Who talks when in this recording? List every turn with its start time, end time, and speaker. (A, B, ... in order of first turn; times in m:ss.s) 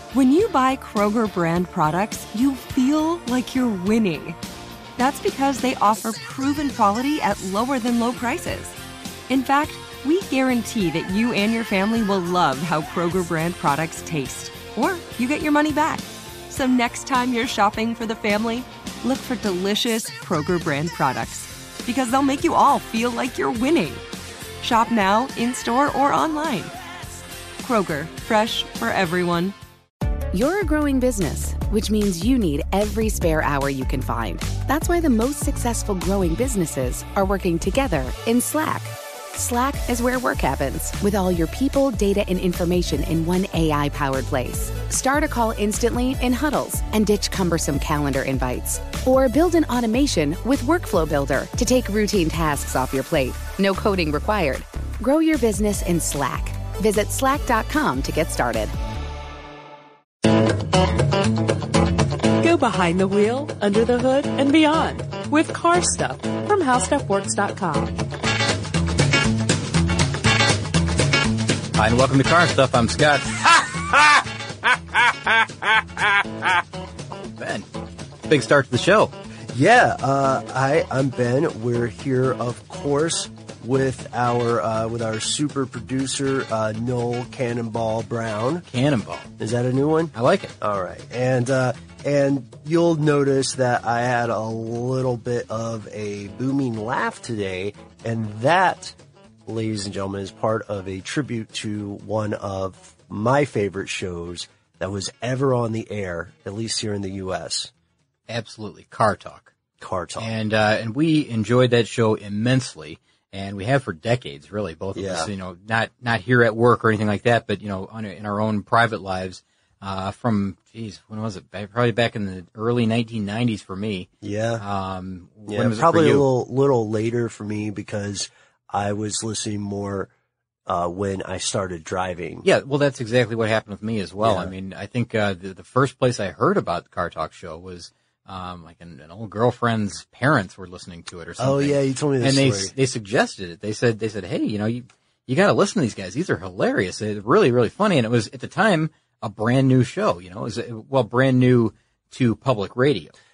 0:00.1-0:04.4 A
0:05.0-0:08.8 A
0:09.3-0:24.0 A
0:24.6-0:26.7 A
0:27.6-0:29.6 A
0:30.3-0:58.7 B
1:02.4-1:08.0 C
1:11.8-1:14.2 D
1:17.4-1:17.6 D
1:18.3-1:19.1 D
1:19.5-1:28.6 E
1:28.7-1:29.3 D
1:29.4-1:47.7 E
1:30.1-1:30.5 D
1:48.3-1:49.5 D
1:49.8-1:50.3 E
1:50.2-2:04.1 D
1:54.9-1:55.3 E
2:04.2-2:04.6 E
2:04.6-2:06.2 D
2:05.5-2:10.1 E
2:10.7-2:12.4 E
2:12.4-2:33.1 D
2:14.2-2:14.5 E
2:21.4-2:22.7 E